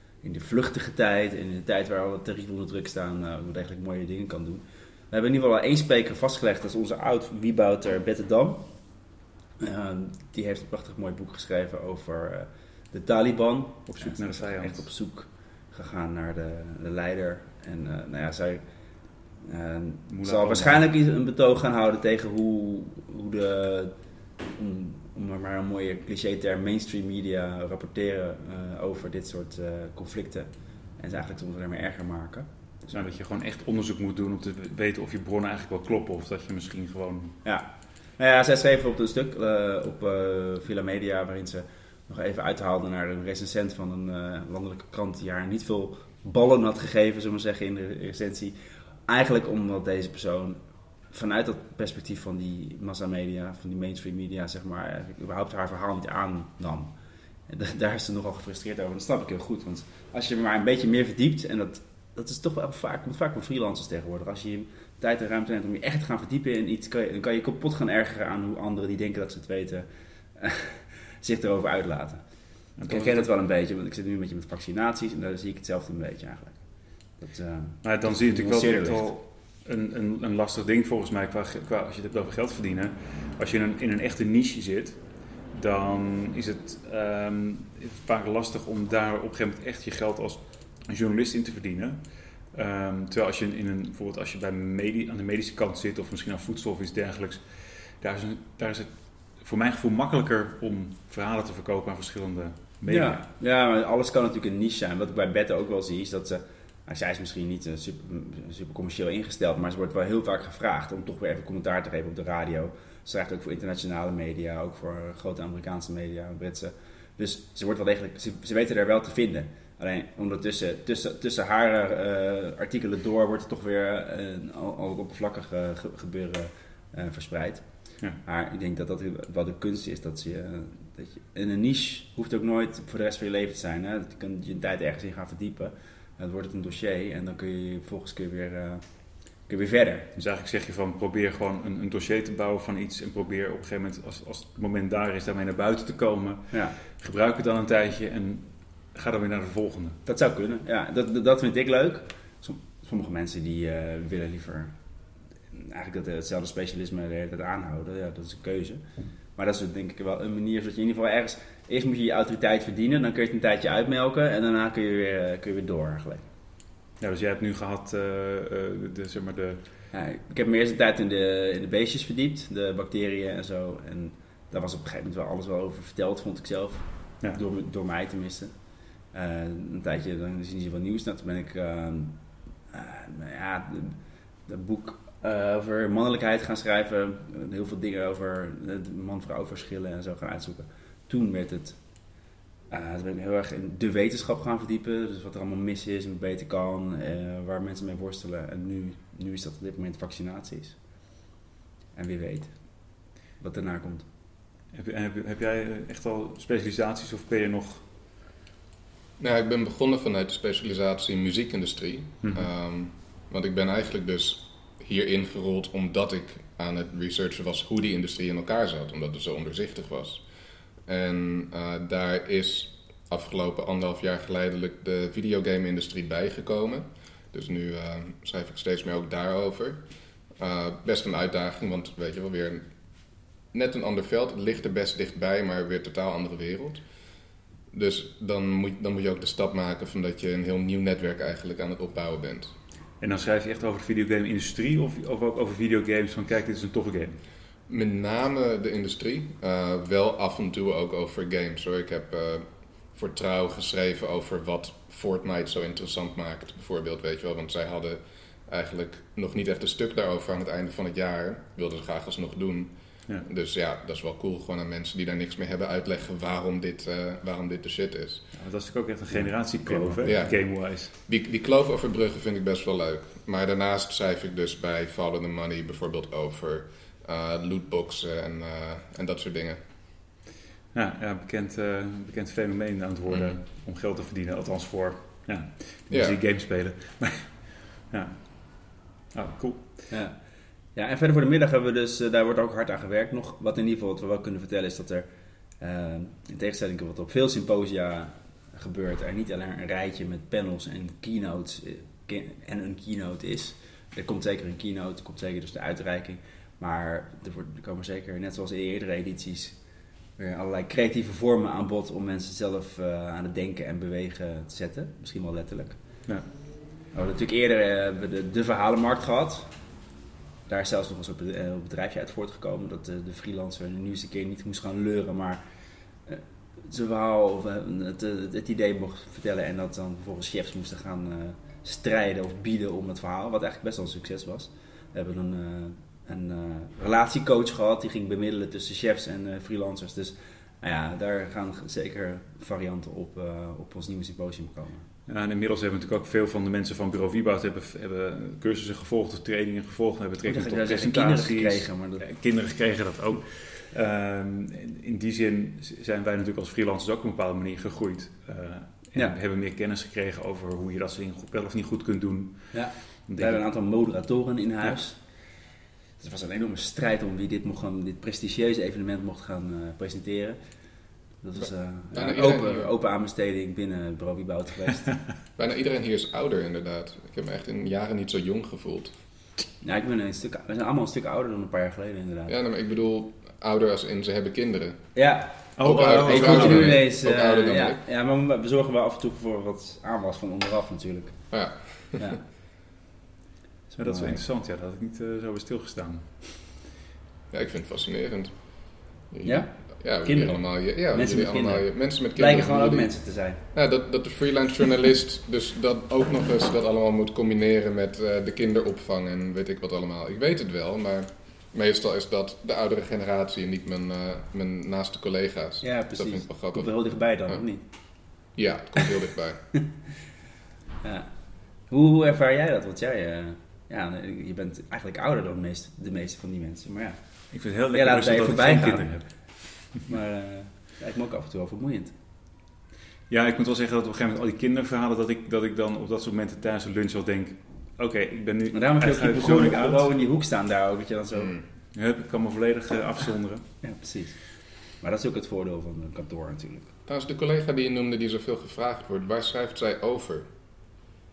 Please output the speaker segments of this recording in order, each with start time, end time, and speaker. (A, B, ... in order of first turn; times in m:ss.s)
0:00.2-0:08.9 A
0:09.6-0:18.6 A
0:13.9-0:14.9 B
0:19.3-0:33.0 A
0:20.1-0:20.9 B
0:32.9-0:37.4 B
0:37.4-0:50.6 A
0:51.1-0:56.9 A
0:57.5-1:19.1 A
1:12.8-1:13.3 B
1:17.8-1:43.2 B
1:42.9-2:20.1 A
2:20.2-2:30.0 B
2:30.1-2:34.8 A
2:35.5-2:46.3 A
2:47.0-2:49.7 B
2:49.9-3:12.1 A
3:12.7-3:20.8 A
3:21.9-3:24.1 A
3:24.7-3:27.8 B
3:29.2-3:40.3 C
3:32.2-3:32.5 B
3:40.8-3:52.7 C
3:53.5-3:56.8 C
3:57.7-4:02.5 C
4:03.0-4:07.2 B
4:07.7-4:28.3 C
4:28.3-4:30.9 B
4:29.1-4:30.4 A
4:30.0-4:39.6 C
4:40.7-4:49.9 B
4:45.9-4:46.2 C
4:49.9-4:55.1 A
4:55.6-5:16.3 A
5:16.9-5:19.6 A
5:20.5-5:25.4 A
5:26.1-5:44.9 A
5:45.1-6:03.4 B
5:50.2-5:52.0 A
6:02.5-6:05.5 A
6:06.0-6:15.0 A
6:11.9-6:12.7 C
6:15.4-6:18.9 C
6:19.6-6:22.4 A
6:22.3-6:24.9 C
6:25.0-6:31.4 A
6:25.6-6:26.8 B
6:25.6-6:27.8 C
6:31.3-6:32.1 C
6:31.9-6:32.2 A
6:33.7-6:34.2 A
6:33.8-6:36.4 B
6:37.3-6:43.0 C
6:39.2-6:43.5 A
6:43.5-6:56.7 C
6:55.6-6:58.2 A
6:58.2-6:59.5 C
7:00.8-7:11.9 A
7:07.3-7:09.7 B
7:13.1-7:19.9 B
7:18.5-7:21.4 A
7:21.7-7:23.5 B
7:23.6-7:26.7 A
7:26.9-7:30.3 C